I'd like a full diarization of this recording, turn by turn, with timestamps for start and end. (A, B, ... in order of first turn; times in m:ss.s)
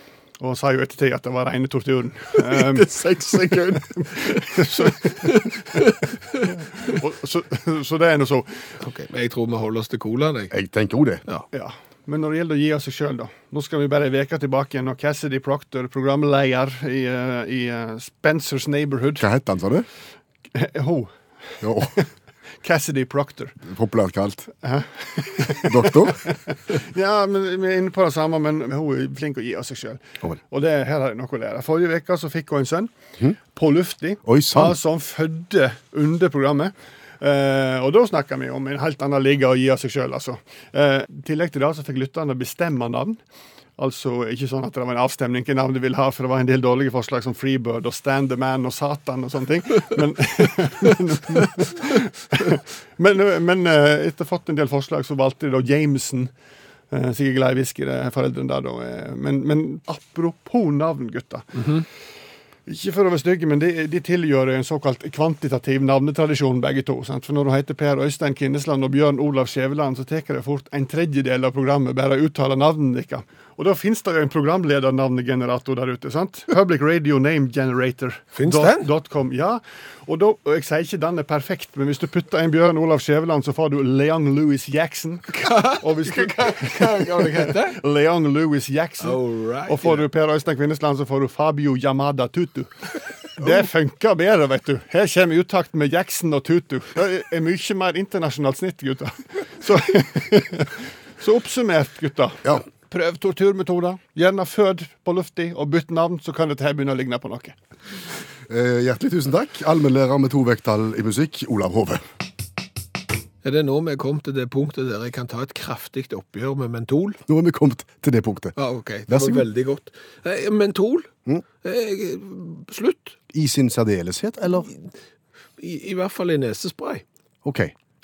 0:00.4-0:05.3 A
0:02.4-0:06.5 B
0:06.4-0:08.7 A
0:08.8-0:10.5 B
0:10.5-0:11.2 C
0:11.5-0:19.2 A
0:19.2-0:19.9 C
0:20.5-0:22.1 A
0:21.6-0:21.9 C
0:22.6-0:23.6 A
0:23.6-0:24.5 C
0:24.6-0:32.9 A
0:25.6-0:26.2 C
0:33.5-0:43.2 A
0:34.3-0:34.8 C
0:43.8-0:56.3 A
0:56.9-1:01.8 A
1:01.6-1:01.8 B
1:02.7-1:47.6 A
1:18.4-1:18.9 B
1:25.3-1:27.8 B
1:29.0-1:30.0 B
1:48.5-1:52.0 C
1:53.4-1:57.2 B
1:57.3-1:58.6 C
1:58.6-2:01.1 B
1:59.1-1:59.5 C
2:01.6-2:03.2 B
2:03.3-2:04.7 C
2:05.6-2:07.0 B
2:07.4-2:07.7 C